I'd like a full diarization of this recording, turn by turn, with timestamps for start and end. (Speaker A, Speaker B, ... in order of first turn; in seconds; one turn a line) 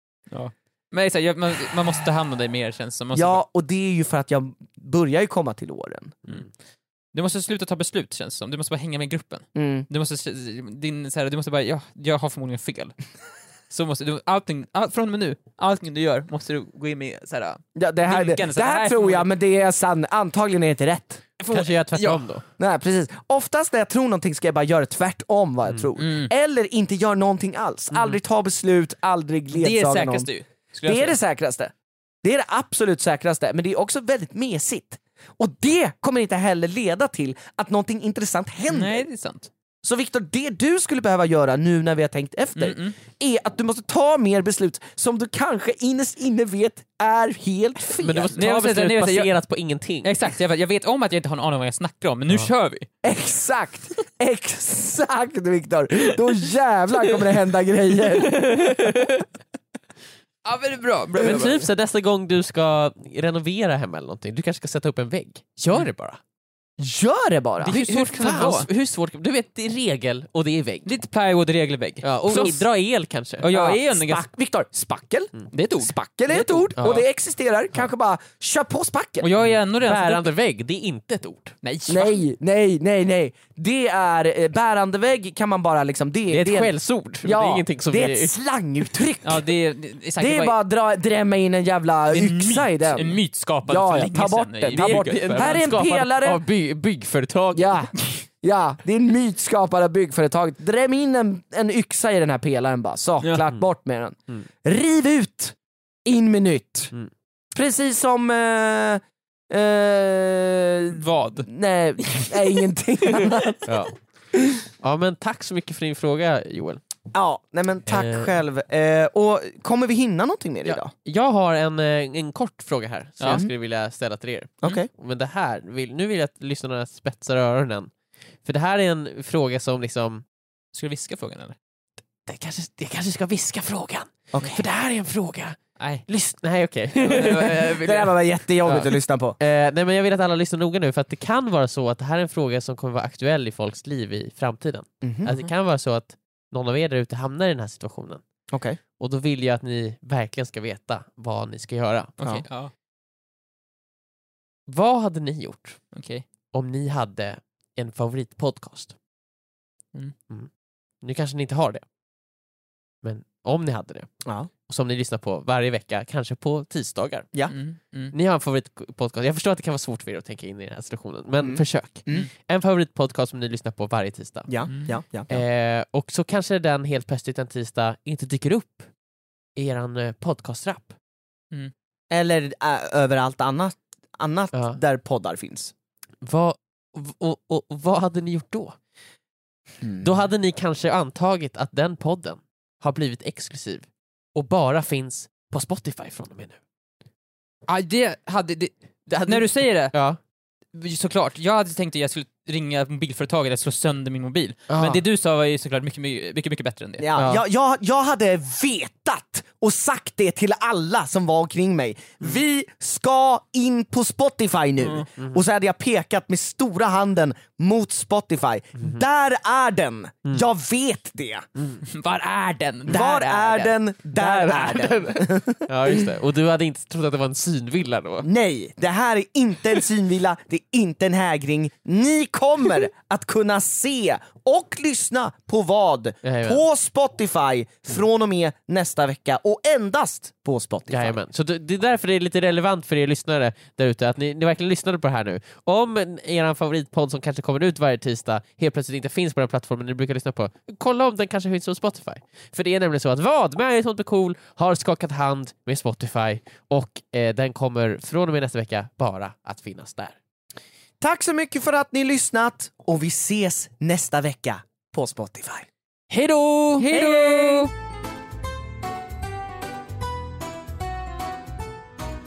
Speaker A: 0.3-3.4
Speaker B: 3.1-6.2
Speaker A: 7.1-12.9
Speaker B: 9.6-9.9
Speaker A: 13.7-19.3
Speaker B: 17.8-21.4
Speaker A: 21.4-22.2
Speaker C: 21.5-22.4
Speaker B: 22.6-30.3
Speaker A: 26.0-26.3
Speaker A: 29.5-31.2
Speaker B: 30.8-39.0
Speaker A: 38.7-39.5
Speaker B: 39.8-48.4
Speaker A: 42.6-43.0
Speaker C: 48.0-50.1
Speaker A: 48.4-49.3
Speaker A: 50.0-52.9
Speaker B: 53.0-58.9
Speaker C: 58.0-59.2
Speaker A: 60.5-61.7
Speaker C: 61.2-66.2
Speaker B: 66.8-67.9
Speaker A: 67.6-68.7
Speaker C: 67.7-70.9
Speaker A: 70.9-72.6
Speaker C: 72.0-73.5
Speaker A: 73.4-74.2
Speaker B: 73.5-79.3
Speaker A: 75.5-76.7
Speaker C: 76.8-77.1
Speaker A: 79.2-80.3
Speaker C: 79.4-81.5
Speaker A: 81.6-82.2
Speaker B: 81.9-86.7
Speaker C: 86.3-88.4
Speaker B: 87.2-89.4
Speaker A: 89.2-90.6
Speaker B: 90.2-96.4
Speaker A: 92.1-95.7
Speaker C: 94.7-97.8
Speaker B: 97.5-106.9
Speaker B: 107.5-113.8
Speaker A: 110.9-111.5
Speaker A: 112.0-112.3
Speaker C: 113.7-113.9
Speaker C: 114.8-116.8
Speaker B: 117.1-120.9
Speaker C: 117.9-118.3
Speaker C: 120.7-127.9
Speaker A: 123.2-123.5
Speaker B: 124.6-124.9
Speaker C: 128.4-130.2
Speaker A: 130.7-131.6
Speaker C: 132.3-137.8
Speaker B: 134.3-134.6
Speaker A: 135.8-136.1
Speaker A: 137.0-138.1
Speaker B: 137.0-139.4
Speaker C: 138.7-148.2
Speaker B: 145.0-145.4
Speaker B: 148.5-148.8
Speaker C: 149.0-152.1
Speaker A: 152.2-152.7
Speaker C: 154.7-155.8
Speaker A: 155.9-156.2
Speaker C: 156.5-158.9
Speaker C: 161.0-161.8
Speaker C: 163.0-164.1
Speaker C: 164.7-167.3
Speaker A: 167.5-168.1
Speaker C: 168.1-174.5
Speaker B: 171.4-172.3
Speaker B: 174.5-175.4
Speaker A: 174.7-174.9
Speaker C: 175.3-178.9
Speaker C: 179.6-180.9
Speaker B: 182.1-185.7
Speaker C: 184.5-184.8
Speaker C: 186.2-188.8
Speaker B: 189.8-190.1
Speaker C: 190.0-196.6
Speaker A: 197.7-199.9
Speaker C: 199.1-200.2
Speaker A: 200.7-207.1
Speaker C: 204.7-205.0
Speaker B: 207.0-221.5
Speaker C: 207.2-207.4
Speaker A: 214.8-215.1
Speaker C: 218.8-219.0
Speaker A: 221.9-223.8
Speaker B: 222.9-226.1
Speaker C: 224.2-228.3
Speaker B: 228.2-241.2
Speaker C: 236.2-236.6
Speaker C: 240.9-260.1
Speaker B: 261.0-265.7
Speaker C: 266.1-267.1
Speaker A: 266.8-267.7
Speaker B: 266.9-267.7